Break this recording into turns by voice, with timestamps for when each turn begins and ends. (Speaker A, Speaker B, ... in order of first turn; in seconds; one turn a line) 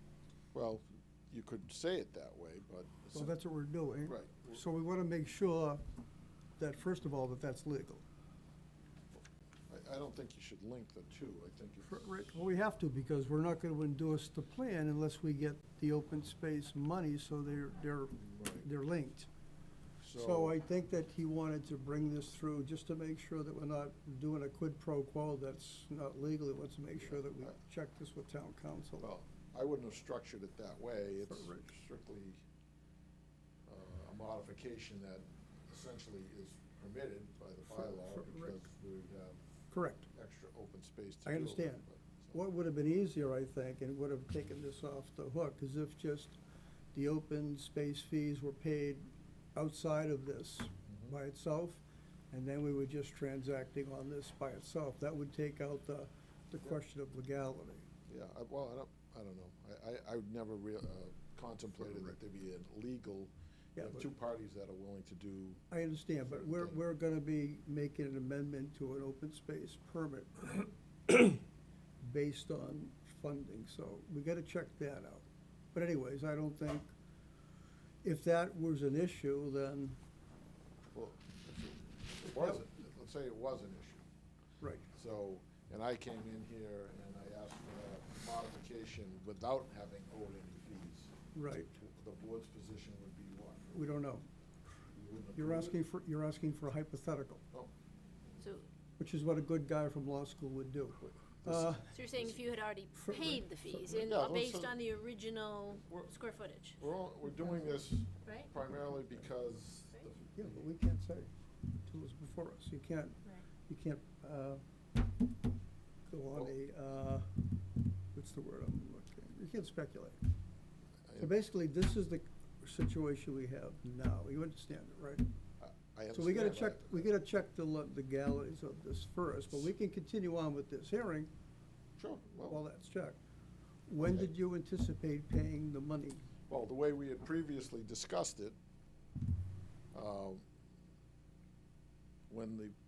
Speaker A: 0.5-3.3
Speaker B: 3.1-5.8
Speaker A: 4.0-4.6
Speaker B: 6.6-8.0
Speaker A: 9.7-12.1
Speaker B: 11.8-19.3
Speaker A: 18.2-18.7
Speaker A: 20.0-20.6
Speaker B: 20.1-29.1
Speaker A: 26.9-27.5
Speaker A: 29.0-32.4
Speaker B: 31.3-31.7
Speaker A: 33.7-39.4
Speaker B: 37.7-38.6
Speaker B: 39.7-40.1
Speaker A: 40.1-42.4
Speaker B: 41.2-41.8
Speaker B: 42.3-46.4
Speaker B: 46.9-57.9
Speaker A: 50.9-51.1
Speaker A: 58.1-65.6
Speaker B: 63.8-64.1
Speaker B: 65.7-71.4
Speaker A: 66.2-66.8
Speaker B: 72.0-76.9
Speaker B: 78.0-80.0
Speaker A: 80.9-84.0
Speaker B: 82.3-82.6
Speaker A: 84.9-91.1
Speaker B: 91.3-91.7
Speaker A: 91.8-93.7
Speaker B: 93.7-94.2
Speaker A: 94.9-95.8
Speaker B: 95.3-97.4
Speaker C: 98.4-98.7
Speaker B: 99.0-101.9
Speaker A: 101.4-102.4
Speaker C: 101.9-106.8
Speaker B: 103.0-103.8
Speaker A: 103.8-104.8
Speaker A: 105.8-106.1
Speaker A: 106.8-110.7
Speaker C: 108.2-108.5
Speaker B: 110.3-111.3
Speaker B: 111.8-114.6
Speaker B: 116.0-117.4
Speaker B: 118.1-120.2
Speaker A: 121.0-121.3
Speaker B: 121.2-125.2
Speaker A: 125.6-127.1
Speaker B: 126.1-131.3
Speaker A: 132.0-132.6
Speaker B: 132.5-133.2
Speaker B: 133.9-136.2
Speaker A: 134.0-134.3
Speaker A: 136.5-138.6
Speaker A: 139.9-140.4
Speaker A: 142.3-142.7